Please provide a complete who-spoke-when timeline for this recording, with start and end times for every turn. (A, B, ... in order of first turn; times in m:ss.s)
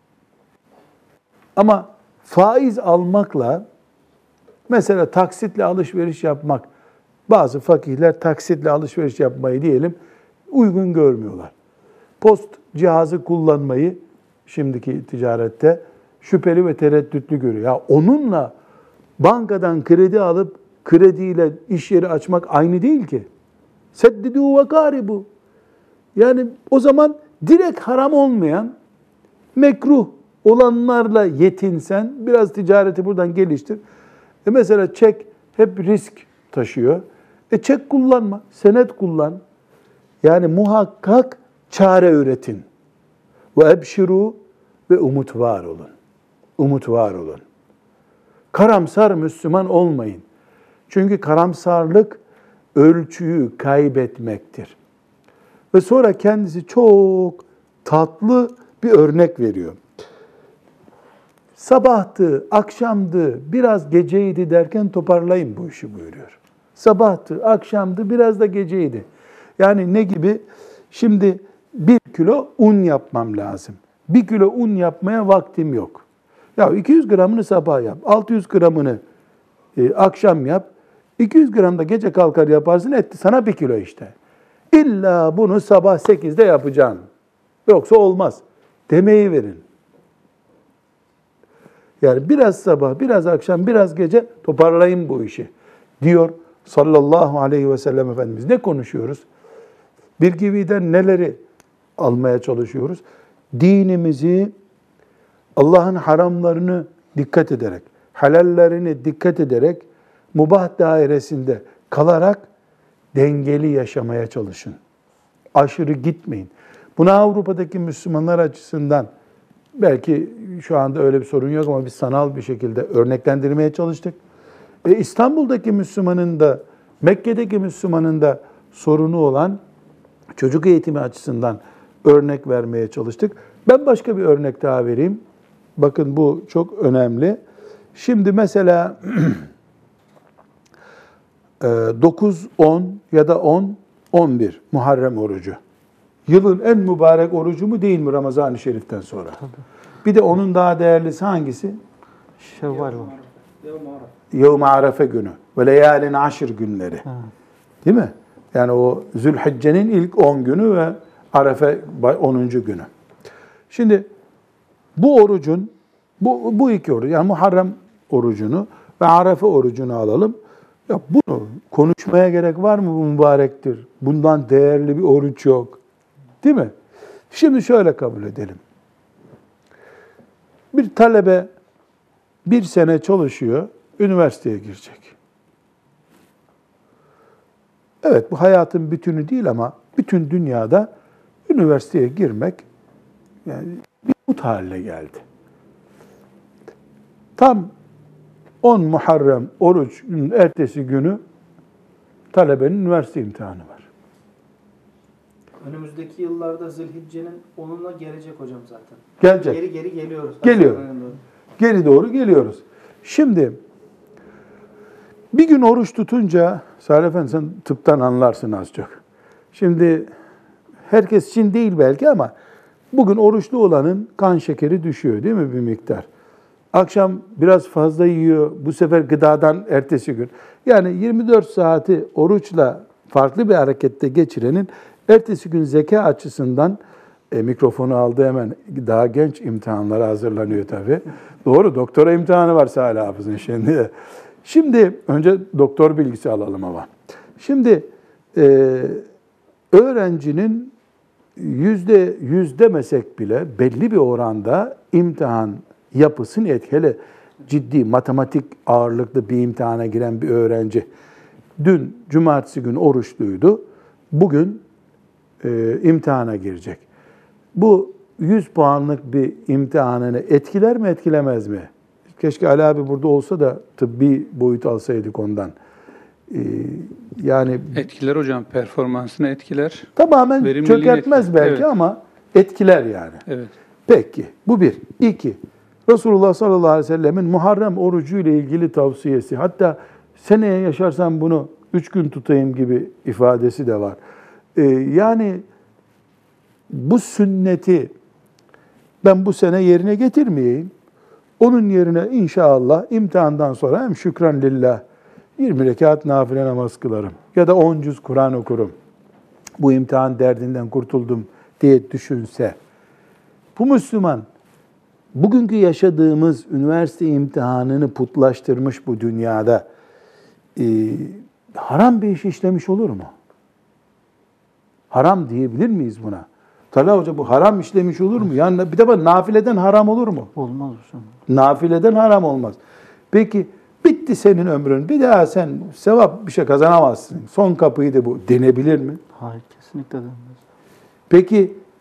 0:01.6-0:03.6 A
0:04.7-0:06.6 A
0:07.3-0:10.0 A
0:10.5-0:11.5 A
0:12.2-0:18.5 A
0:19.2-0:23.3 A
0:23.9-0:25.3 A
0:26.2-0:28.7 A
0:29.5-0:33.8 A
0:34.4-0:39.4 A
0:40.2-0:42.6 A
0:43.5-0:45.9 A
0:46.6-0:47.4 A
0:48.5-0:50.2 A
0:50.9-0:52.2 A
0:52.7-0:54.8 A
0:55.7-0:59.8 A
1:01.6-1:09.0 A
1:09.6-1:16.0 A
1:16.6-1:19.0 A
1:19.8-1:24.1 A
1:24.7-1:27.0 A
1:27.6-1:29.6 A
1:32.0-1:39.2 A
1:40.2-1:41.4 A
1:42.0-1:43.0 A
1:43.5-1:44.5 A
1:45.6-1:52.4 A
1:53.1-1:54.8 A
1:55.5-1:59.1 A
1:59.8-2:04.2 A
2:04.8-2:09.6 A
2:10.4-2:15.2 A
2:15.8-2:17.4 A
2:17.9-2:19.5 A
2:21.6-2:25.6 A
2:26.3-2:29.4 A
2:30.0-2:31.8 A
2:32.4-2:33.2 B
2:33.7-2:34.0 C
2:34.3-2:37.0 A
2:37.8-2:42.9 A
2:43.7-2:44.1 A
2:45.0-2:50.4 A
2:50.9-2:55.8 A
2:56.4-2:56.7 A
2:57.3-2:58.6 A
3:00.7-3:01.5 A
3:02.4-3:05.1 A
3:08.0-3:10.9 A
3:11.5-3:12.6 A
3:13.4-3:15.2 A
3:17.4-3:17.7 A
3:18.6-3:21.2 A
3:22.3-3:23.9 A
3:25.6-3:31.2 C
3:29.2-3:29.6 A
3:30.4-3:30.8 A
3:31.6-3:33.6 A
3:35.3-3:39.0 A
3:39.5-3:40.1 A
3:40.9-3:42.3 A
3:42.9-3:46.1 A
3:46.7-3:56.8 A
3:57.3-4:03.9 A
4:04.4-4:09.0 A
4:09.7-4:10.7 A
4:11.4-4:20.9 A
4:21.6-4:24.6 A
4:25.4-4:26.8 A
4:27.5-4:35.5 A
4:36.3-4:37.8 A
4:37.7-4:41.7 D
4:40.0-4:43.2 A
4:43.3-4:43.5 D
4:43.9-4:54.0 A
4:54.5-4:55.4 A
4:56.7-4:57.9 A
4:59.0-5:00.7 A
5:01.4-5:04.8 A
5:05.4-5:08.7 A
5:09.6-5:12.6 A
5:13.6-5:14.2 A
5:15.1-5:19.6 A
5:20.6-5:23.1 A
5:24.9-5:30.3 A
5:30.4-5:31.1 B
5:31.3-5:32.6 A
5:33.1-5:39.0 A
5:39.2-5:40.4 B
5:41.1-5:41.6 A